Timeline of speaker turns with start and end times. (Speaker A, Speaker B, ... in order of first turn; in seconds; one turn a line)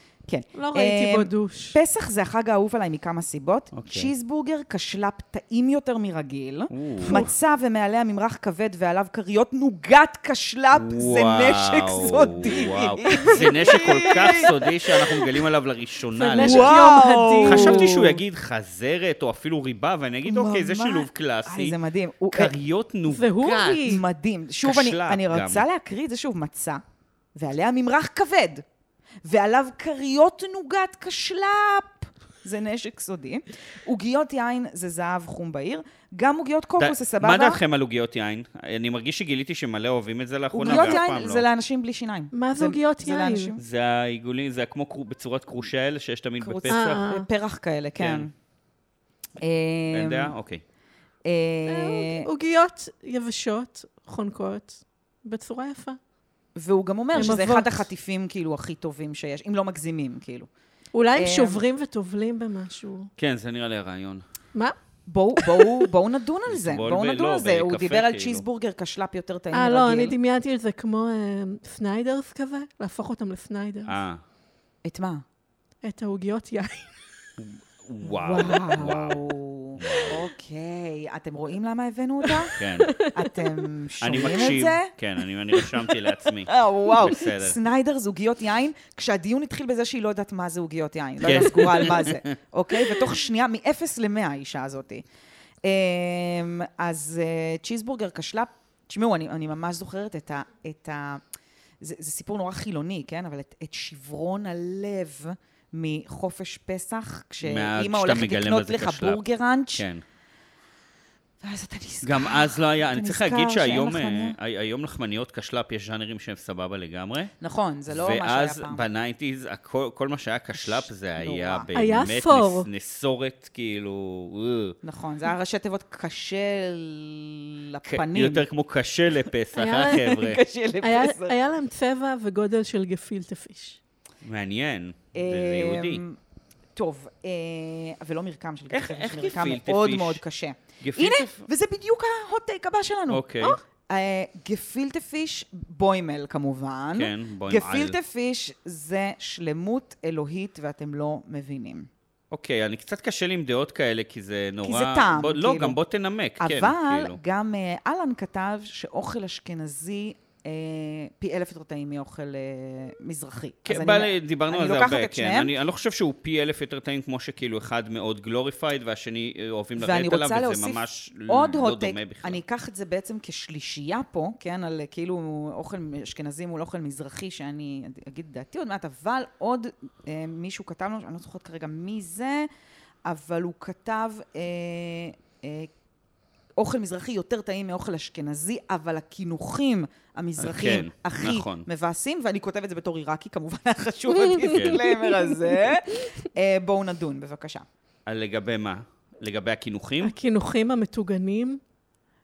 Speaker A: 0.3-15.3
Speaker B: 0.6-1.8
Speaker C: 3.7-4.1
Speaker C: 6.7-7.2
Speaker B: 7.0-7.3
Speaker C: 10.8-16.8
Speaker B: 13.3-14.3
Speaker B: 16.2-18.1
Speaker A: 16.4-18.0
Speaker C: 17.4-21.8
Speaker A: 20.2-22.6
Speaker C: 22.3-24.0
Speaker B: 23.1-24.0
Speaker A: 23.9-26.8
Speaker C: 24.6-25.6
Speaker A: 27.4-28.6
Speaker A: 29.2-37.6
Speaker C: 36.8-41.4
Speaker A: 40.5-43.6
Speaker B: 40.7-41.0
Speaker B: 42.3-43.5
Speaker C: 43.6-47.0
Speaker A: 46.4-48.3
Speaker B: 46.7-47.3
Speaker C: 48.0-48.3
Speaker A: 49.4-50.3
Speaker C: 49.9-50.6
Speaker A: 51.3-52.3
Speaker B: 51.7-56.0
Speaker A: 56.6-60.5
Speaker B: 57.1-57.9
Speaker B: 60.9-63.1
Speaker A: 61.2-61.6
Speaker C: 63.2-64.2
Speaker A: 65.1-70.2
Speaker B: 65.4-65.8
Speaker C: 66.5-68.5
Speaker B: 69.5-74.0
Speaker C: 73.9-74.2
Speaker A: 74.8-75.2
Speaker B: 75.8-76.9
Speaker C: 77.4-80.3
Speaker A: 78.0-82.5
Speaker B: 82.3-83.5
Speaker C: 82.5-83.0
Speaker A: 83.1-84.9
Speaker C: 84.0-87.6
Speaker A: 86.5-95.0
Speaker C: 91.2-92.2
Speaker A: 95.6-101.2
Speaker A: 101.8-109.8
Speaker C: 107.4-109.2
Speaker C: 109.7-110.0
Speaker A: 111.4-114.4
Speaker C: 112.0-117.3
Speaker A: 117.4-118.8
Speaker C: 117.9-124.8
Speaker A: 120.6-121.7
Speaker B: 121.7-122.7
Speaker A: 124.8-128.5
Speaker C: 127.8-130.4
Speaker B: 129.6-130.2
Speaker A: 130.0-131.4
Speaker B: 130.8-133.8
Speaker C: 134.2-136.0
Speaker A: 135.1-136.2
Speaker A: 136.8-151.9
Speaker C: 138.7-140.2
Speaker C: 140.8-141.5
Speaker C: 143.1-143.6
Speaker C: 146.9-148.0
Speaker C: 152.3-157.2
Speaker A: 154.6-155.8
Speaker A: 156.4-165.5
Speaker C: 163.7-172.4
Speaker A: 169.8-182.5
Speaker A: 183.1-185.7
Speaker A: 186.6-197.7
Speaker C: 190.4-191.7
Speaker C: 194.5-194.8
Speaker C: 198.1-200.2
Speaker B: 200.0-201.6